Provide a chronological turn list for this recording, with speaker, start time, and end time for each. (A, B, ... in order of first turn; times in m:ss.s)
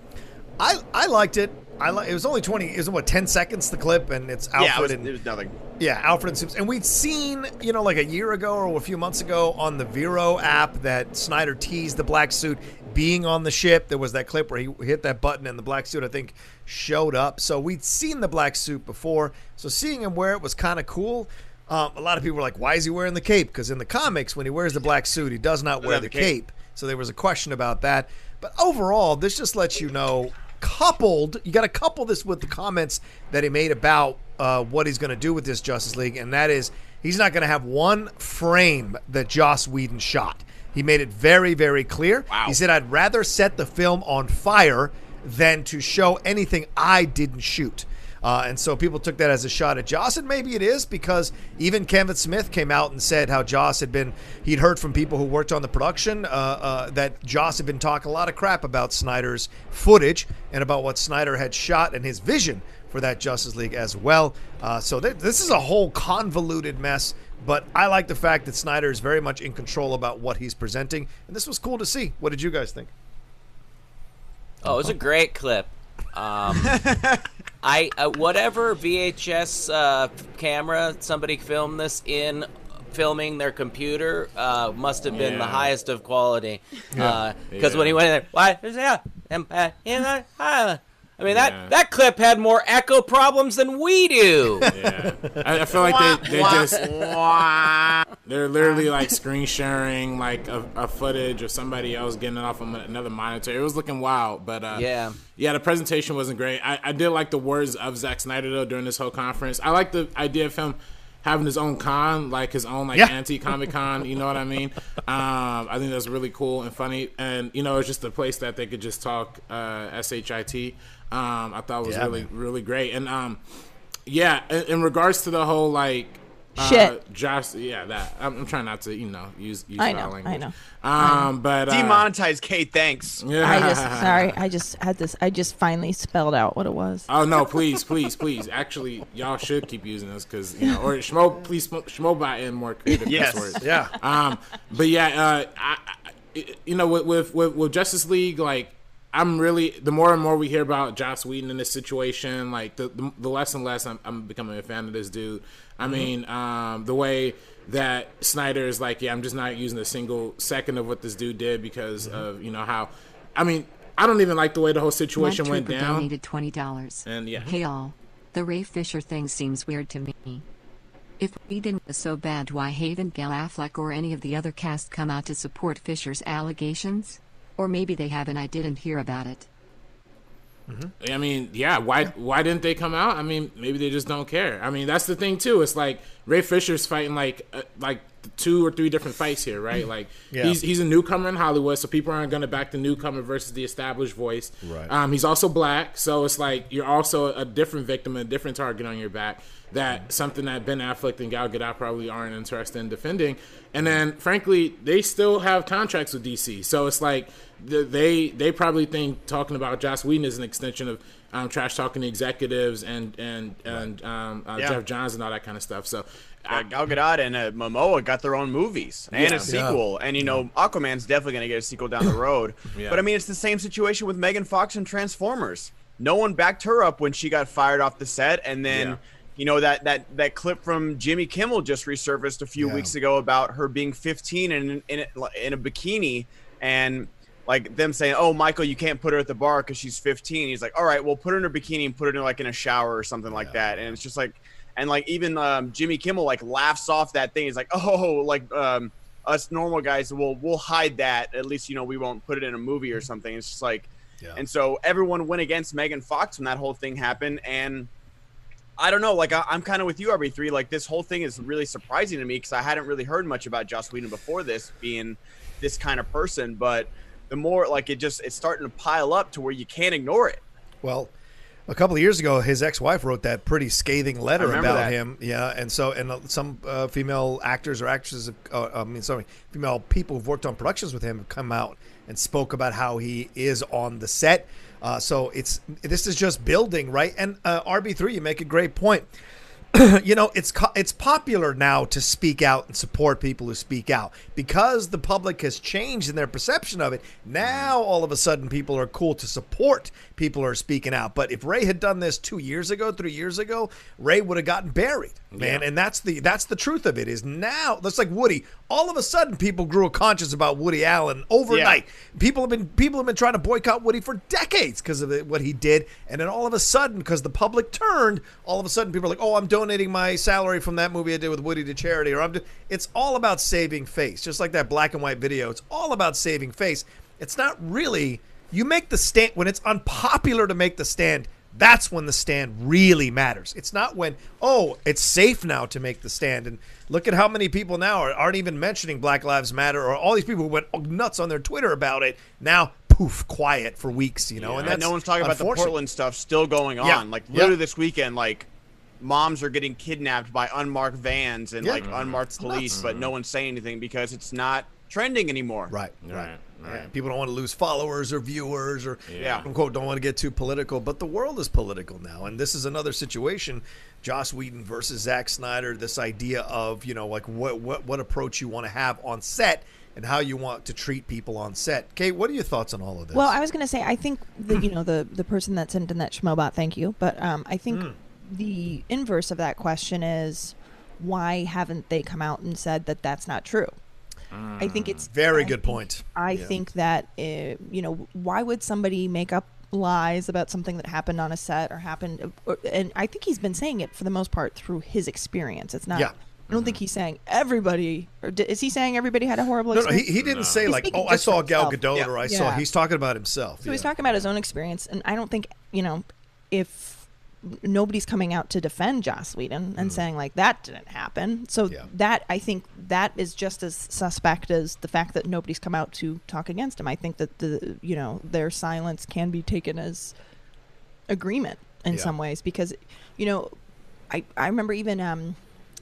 0:00.6-0:05.1 A
0:04.6-0:05.6 B
0:05.8-1:12.9 A
0:25.8-0:26.3 B
0:42.3-0:42.6 C
1:14.6-1:16.8 C
1:14.6-1:14.9 A
1:16.6-1:17.2 B
1:17.6-1:34.7 C
1:25.1-1:25.7 D
1:26.9-1:27.2 A
1:27.5-1:28.0 D
1:31.3-1:31.7 D
1:34.7-1:37.1 D
1:35.8-1:38.1 C
1:38.2-2:03.4 D
1:44.7-1:45.2 C
2:01.8-2:02.3 A
2:04.0-2:12.1 D
2:06.6-2:06.9 E
2:09.8-2:11.3 E
2:11.7-2:13.2 B
2:13.2-2:14.4 D
2:13.4-2:17.1 E
2:17.1-2:46.1 D
2:23.0-2:23.6 B
2:23.6-2:23.9 A
2:35.8-2:36.1 A
2:45.2-2:50.4 F
2:47.0-2:47.5 D
2:51.2-2:59.5 F
3:01.0-3:36.6 D
3:10.3-3:10.6 A
3:14.6-3:14.9 A
3:36.5-4:17.9 B
3:39.1-3:39.5 D
3:39.4-3:39.8 A
3:42.8-3:43.0 D
3:48.7-3:49.0 A
3:52.6-3:52.9 A
4:03.3-4:04.0 A
4:18.8-4:30.4 B
4:30.8-4:31.1 A
4:31.7-4:49.1 A
4:34.4-4:34.9 B
4:49.7-5:45.8 A
4:57.4-4:57.7 D
5:05.3-5:05.6 D
5:11.5-5:11.8 B
5:44.4-5:44.9 D
5:44.6-5:48.5 B
5:46.8-5:47.5 A
5:49.0-5:55.7 B
5:51.8-5:53.1 D
5:52.4-5:52.7 E
5:55.7-6:13.4 A
5:56.0-5:56.9 D
5:59.1-5:59.5 D
5:59.2-5:59.4 B
6:13.1-6:23.8 E
6:17.7-6:18.0 A
6:24.3-6:25.0 D
6:24.6-6:42.6 E
6:25.1-6:26.6 A
6:36.5-6:36.8 D
6:39.7-6:43.9 A
6:40.2-6:40.7 D
6:43.6-7:00.1 E
6:49.8-6:50.0 A
7:01.1-7:03.6 E
7:04.1-7:05.4 E